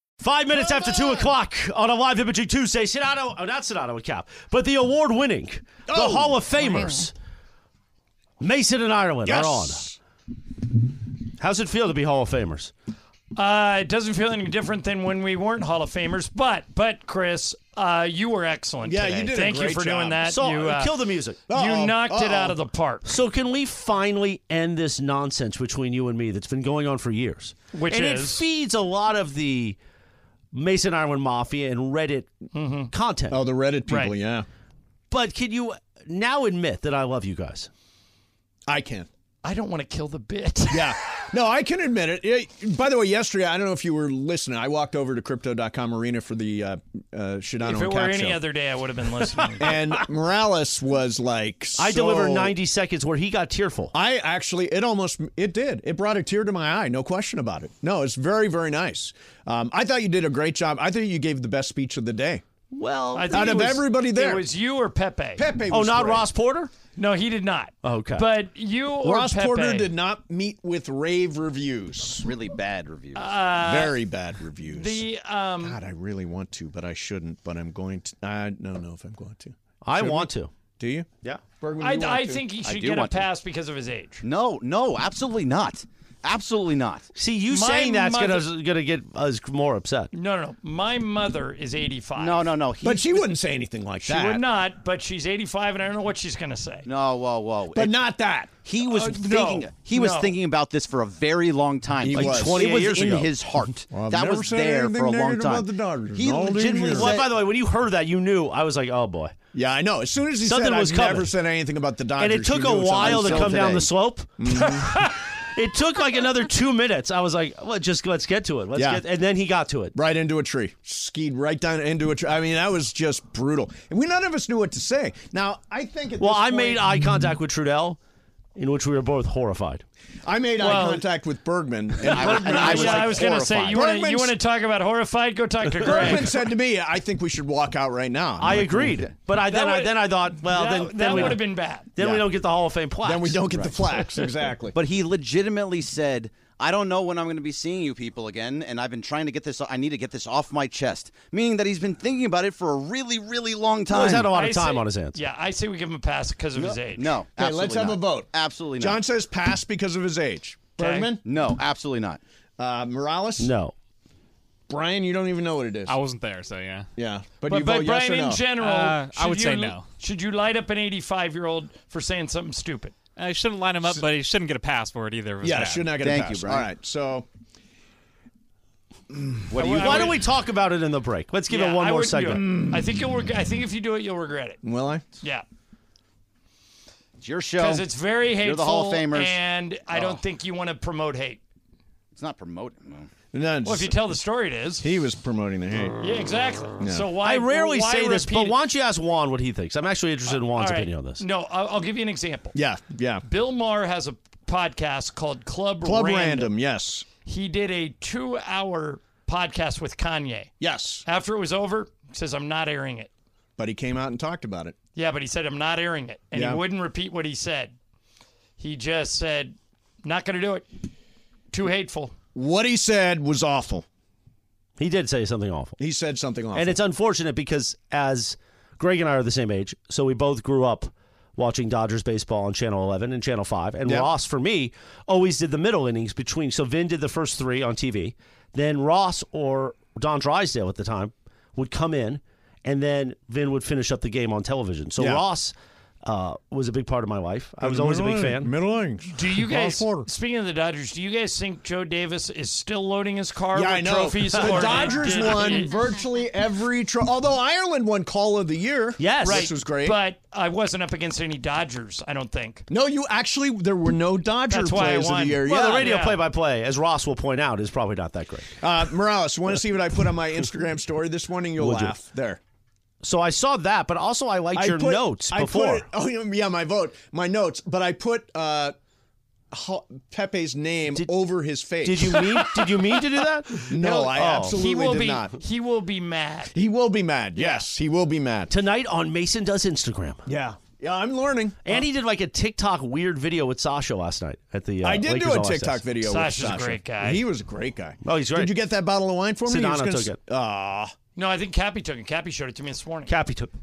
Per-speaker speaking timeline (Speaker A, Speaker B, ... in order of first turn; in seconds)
Speaker A: 0.2-7.1, 8.4-9.8, 11.4-12.7, 20.2-21.4, 23.1-29.8, 30.5-32.3, 32.9-33.4, 35.1-37.7, 51.8-53.9, 62.7-63.7, 65.7-66.7, 67.8-68.2, 79.8-80.5, 87.2-90.1, 102.1-103.3, 106.7-109.3, 110.4-111.3, 112.2-119.9, 126.2-128.0, 128.6-129.8, 132.5-132.8, 138.4-141.4, 141.9-143.4, 153.9-155.2, 163.4-163.7, 179.7-182.5, 197.2-201.2, 224.8-225.8, 226.5-248.5, 254.3-254.8, 259.0-259.5, 265.4-268.5, 271.6-271.9, 273.0-275.9, 281.8-284.5, 288.5-290.2, 291.6-295.8, 298.0-298.5, 299.4-300.2, 303.1-303.5
Speaker B: 0.5-1.3, 5.9-6.9, 9.2-10.0, 18.8-20.2, 21.5-22.6, 33.3-34.5, 38.7-39.1, 40.7-48.4, 49.6-52.5, 53.9-62.4, 63.3-64.4, 65.4-66.3, 69.0-72.3, 73.6-75.0, 75.6-81.1, 81.6-82.5, 92.8-94.4, 97.7-98.5, 99.3-99.6, 102.0-102.8, 103.9-107.2, 109.5-113.8, 114.4-115.1, 118.7-119.0, 119.9-126.8, 130.2-134.3, 135.8-139.1, 142.0-142.3, 143.0-144.8, 157.3-161.2, 162.6-163.5, 164.7-165.9, 166.9-168.5, 175.4-177.3, 182.4-182.8, 184.6-185.1, 193.3-194.1, 194.8-196.0, 196.8-197.1, 202.5-203.2, 205.8-207.1, 210.6-211.0, 213.6-214.8, 216.3-216.6, 222.3-223.8, 225.8-226.8, 245.0-245.2, 247.6-250.1, 253.5-260.0, 262.7-266.0, 268.6-272.4, 274.5-278.7, 279.5-282.9, 283.7-285.3, 286.5-288.5, 290.2-291.9, 294.8-300.9
Speaker C: 13.3-20.9, 21.5-23.2, 27.7-28.4, 32.5-32.9, 33.9-34.1, 39.4-40.9, 47.6-49.9, 63.1-65.5, 66.9-69.9, 73.1-74.0, 74.7-75.8, 81.8-84.2, 87.5-88.5, 90.1-92.5, 94.0-96.8, 98.8-100.3, 114.8-115.1, 130.6-131.1, 132.0-136.4, 139.4-141.9, 154.2-157.2, 160.8-161.2, 167.4-173.0, 179.5-180.2, 181.5-184.6, 187.6-191.4, 193.6-194.8, 196.0-198.6, 200.3-202.6, 203.2-206.5, 207.2-213.1, 214.9-217.7, 218.6-220.7, 221.5-222.2, 249.1-255.9, 259.2-262.7, 264.5-266.2, 283.8-286.6, 287.4-287.7, 296.0-297.2, 301.1-303.1
Speaker D: 72.2-73.4, 82.6-83.3, 84.2-87.1, 92.2-93.2, 96.8-98.0, 98.6-107.3, 113.0-113.9, 132.0-133.8, 144.7-154.3, 156.9-159.0, 161.2-162.2, 176.0-176.7, 179.5-180.2, 187.2-187.9, 188.4-189.4, 189.9-190.2, 192.1-193.1
Speaker E: 165.8-166.9, 168.6-169.9, 173.2-176.0